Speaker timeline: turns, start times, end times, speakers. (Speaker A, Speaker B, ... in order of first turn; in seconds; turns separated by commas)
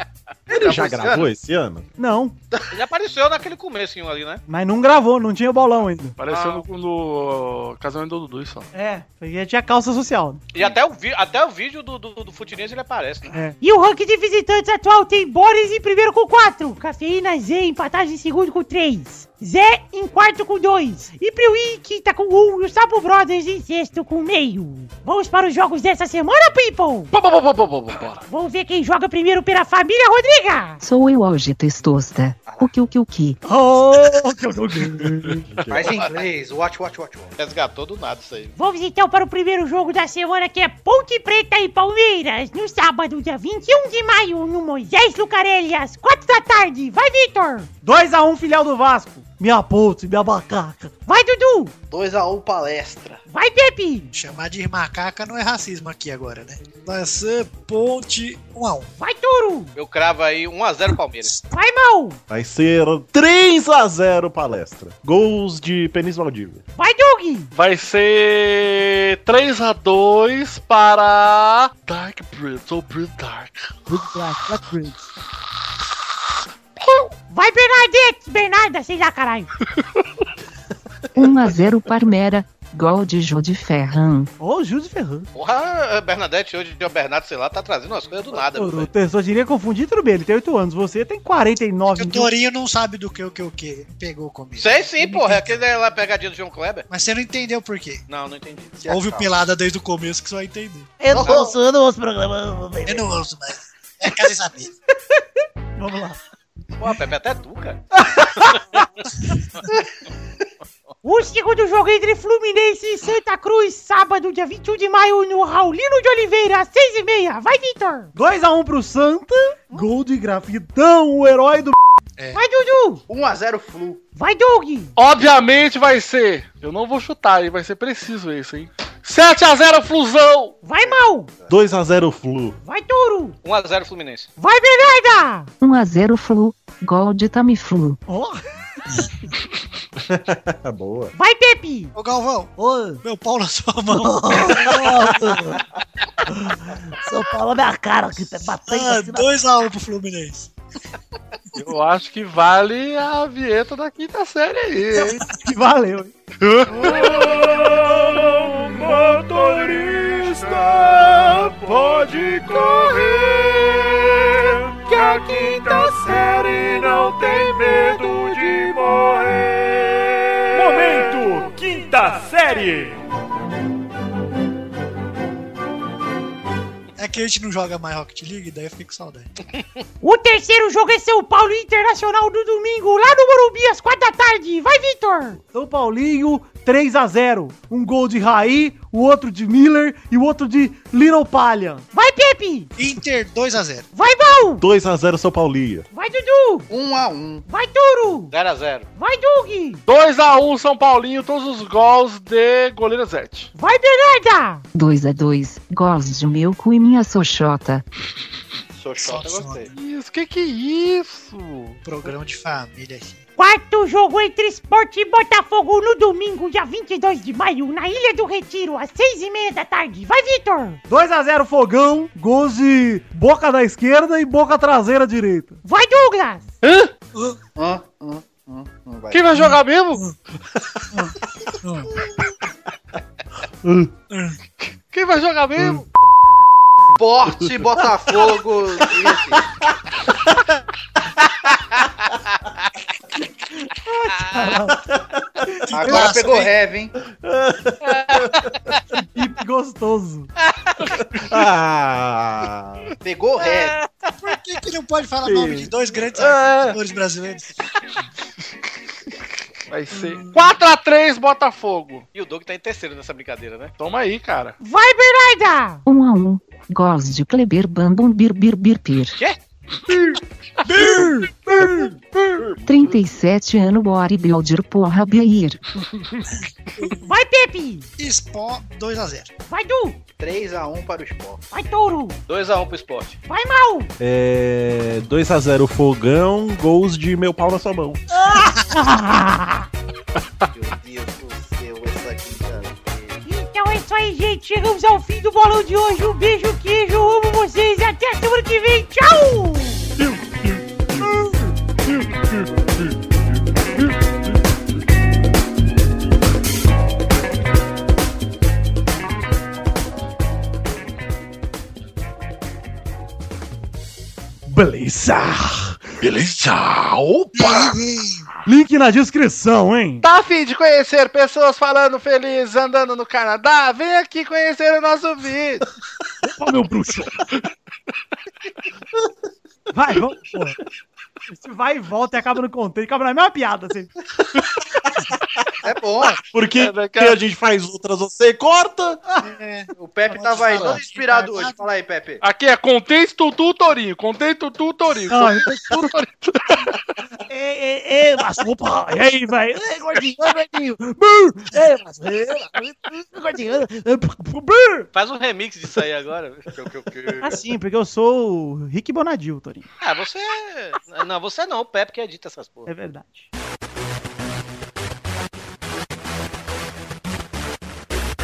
Speaker A: 0.5-1.3, Speaker B: 0.5-1.9, Speaker C: 2.0-2.4, Speaker D: 2.7-4.4, Speaker C: 4.5-6.1, Speaker E: 6.2-8.7, Speaker D: 6.3-6.6, Speaker C: 8.7-10.4, Speaker D: 10.5-13.3, Speaker F: 13.6-27.1, Speaker E: 27.1-28.2, Speaker F: 28.3-30.8, Speaker G: 30.8-33.4, Speaker A: 32.4-32.7, Speaker C: 33.4-35.5, Speaker A: 35.7-37.3, Speaker D: 35.9-36.2, Speaker D: 37.4-38.5, Speaker F: 38.5-47.7, Speaker C: 47.8-50.9, Speaker F: 51.1-51.7, Speaker A: 51.9-53.2, Speaker F: 53.3-54.1, Speaker H: 54.1-58.9, Speaker F: 59.0-59.7, Speaker D: 59.8-61.4, Speaker F: 61.5-62.2, Speaker B: 62.3-66.6, Speaker F: 66.8-67.5, Speaker E: 67.5-73.8, Speaker C: 73.9-75.0, Speaker E: 76.8-77.1, Speaker F: 77.3-79.5, Speaker G: 81.1-84.3, Speaker C: 84.4-85.3, Speaker D: 85.3-88.9, Speaker C: 88.5-92.3, Speaker H: 91.9-95.6, Speaker D: 94.6-96.9, Speaker H: 96.9-98.0, Speaker D: 98.1-98.9, Speaker A: 98.8-99.3, Speaker H: 98.8-100.9, Speaker I: 101.0-103.1, Speaker A: 101.1-101.5, Speaker D: 101.2-101.4, Speaker H: 102.8-104.7, Speaker C: 105.8-106.2, Speaker D: 106.8-107.8, Speaker C: 108.0-108.8, Speaker F: 111.0-118.1, Speaker C: 118.1-121.8, Speaker H: 122.2-122.4, Speaker F: 122.3-123.0, Speaker A: 123.1-124.0, Speaker F: 124.2-124.9, Speaker E: 125.0-130.6, Speaker F: 130.6-131.3, Speaker A: 130.8-131.5, Speaker B: 131.5-132.6, Speaker F: 132.6-133.4, Speaker D: 133.4-134.3, Speaker F: 134.4-135.5, Speaker G: 135.6-138.0, Speaker C: 138.1-138.4, Speaker B: 140.0-141.1, Speaker F: 141.2-141.9, Speaker H: 141.9-144.9, Speaker I: 142.6-143.0, Speaker I: 143.9-145.6, Speaker I: 147.0-149.3, Speaker H: 148.7-150.5, Speaker E: 151.5-155.2, Speaker C: 154.9-156.1, Speaker E: 156.4-158.4, Speaker C: 156.7-163.2, Speaker J: 157.3-170.0, Speaker C: 164.9-166.2, Speaker J: 170.5-173.0, Speaker H: 176.9-179.3, Speaker F: 180.0-185.4, Speaker C: 185.5-191.8, Speaker F: 191.9-192.7, Speaker H: 192.8-193.8, Speaker F: 193.9-194.6, Speaker B: 194.6-195.9, Speaker F: 195.9-196.7, Speaker A: 196.7-197.4, Speaker F: 197.5-198.3, Speaker D: 198.3-198.8, Speaker F: 198.9-199.8, Speaker E: 199.9-203.5, Speaker F: 203.5-204.6, Speaker G: 204.7-207.8, Speaker A: 208.7-209.7, Speaker H: 209.0-209.7, Speaker E: 209.7-211.8, Speaker H: 211.8-213.2, Speaker F: 213.4-220.8, Speaker C: 220.9-225.6, Speaker F: 225.6-226.5, Speaker E: 226.6-226.9, Speaker A: 227.6-229.2, Speaker E: 229.1-230.1, Speaker H: 230.9-231.9, Speaker H: 234.1-234.3, Speaker E: 234.9-235.8, Speaker A: 236.9-239.4, Speaker C: 243.8-244.7, Speaker H: 245.7-246.5, Speaker A: 245.7-246.9, Speaker B: 247.2-248.5, Speaker C: 249.1-250.3, Speaker B: 251.0-252.9, Speaker A: 253.0-253.8, Speaker H: 254.1-257.5, Speaker C: 255.3-255.6, Speaker B: 256.1-256.8, Speaker E: 259.7-262.1, Speaker D: 262.1-263.7, Speaker E: 263.8-264.6, Speaker F: 264.6-265.8, Speaker G: 265.9-269.2, Speaker C: 270.7-271.9, Speaker G: 272.6-275.6, Speaker F: 277.0-277.9, Speaker H: 278.0-279.3, Speaker F: 279.5-280.0, Speaker A: 280.2-281.4, Speaker F: 281.5-282.2, Speaker D: 282.3-283.2, Speaker F: 283.3-283.9, Speaker B: 284.0-288.0, Speaker C: 288.3-288.9, Speaker F: 288.4-289.7, Speaker H: 288.4-288.9, Speaker A: 290.5-293.2, Speaker F: 293.2-299.9, Speaker C: 314.5-315.8, Speaker E: 316.0-317.8, Speaker H: 317.4-318.2, Speaker C: 318.4-320.0, Speaker E: 320.0-325.6, Speaker C: 326.3-327.2, Speaker C: 329.7-330.6, Speaker C: 331.3-333.9, Speaker A: 335.6-336.2, Speaker B: 336.3-339.0, Speaker E: 336.6-337.2, Speaker H: 339.2-341.6, Speaker A: 339.7-342.2, Speaker E: 342.2-346.8, Speaker C: 345.1-345.7, Speaker C: 347.3-352.3, Speaker I: 351.5-353.9, Speaker C: 353.4-354.9, Speaker D: 354.9-357.3, Speaker C: 357.2-359.7, Speaker D: 359.8-362.7, Speaker C: 362.7-363.3